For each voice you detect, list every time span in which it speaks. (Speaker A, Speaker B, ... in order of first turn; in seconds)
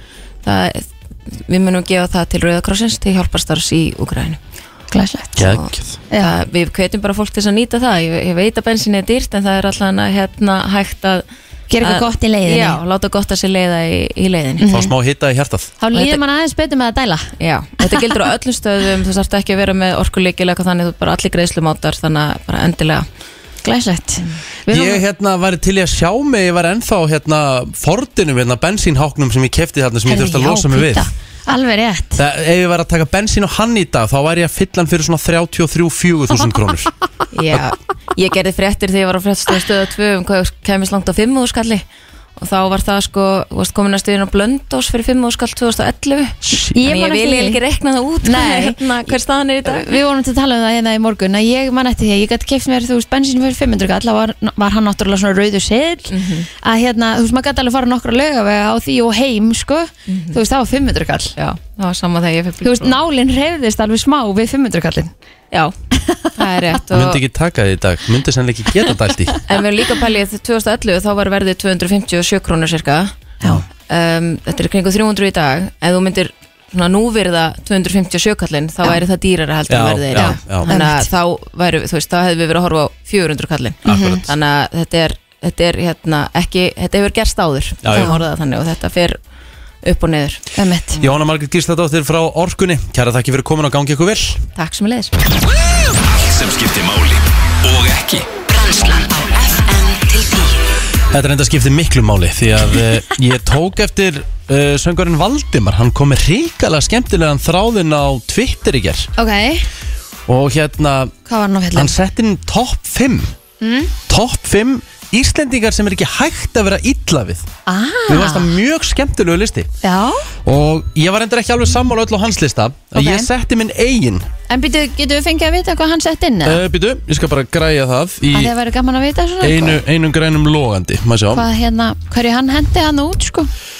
Speaker A: 0.4-4.4, 5.4-11.2, 11.8-14.7, 15.9-16.2, 17.4-23.1, 37.3-41.8, 42.4-50.0, 56.1-56.5, 60.1-60.4, 61.4-63.0, 66.4-67.2, 69.5-73.1, 73.8-89.2, 89.8-90.4, 94.6-95.2
Speaker B: 4.9-5.4, 11.7-12.8, 14.6-14.9, 15.8-17.3, 23.6-25.0, 30.1-32.2, 46.7-47.6, 48.2-48.8, 49.6-61.3, 62.6-65.1, 65.9-66.3, 80.2-81.1, 83.9-84.2, 87.9-88.2, 90.6-91.0, 109.2-109.7, 111.3-111.9, 113.6-113.9, 117.7-118.5, 119.8-120.3, 123.0-123.3, 124.5-126.6, 128.3-129.8, 131.3-133.5
Speaker C: 5.4-6.0, 14.7-15.7, 24.7-31.1, 32.2-36.9, 66.9-69.4, 79.7-80.7, 83.9-84.3, 87.8-88.2, 91.0-94.5, 101.1-109.1, 110.3-111.2, 111.8-113.3, 114.1-117.5, 118.1-119.7, 120.5-124.3, 126.4-128.5, 129.4-131.4
Speaker D: 95.9-98.3
Speaker E: 98.5-100.6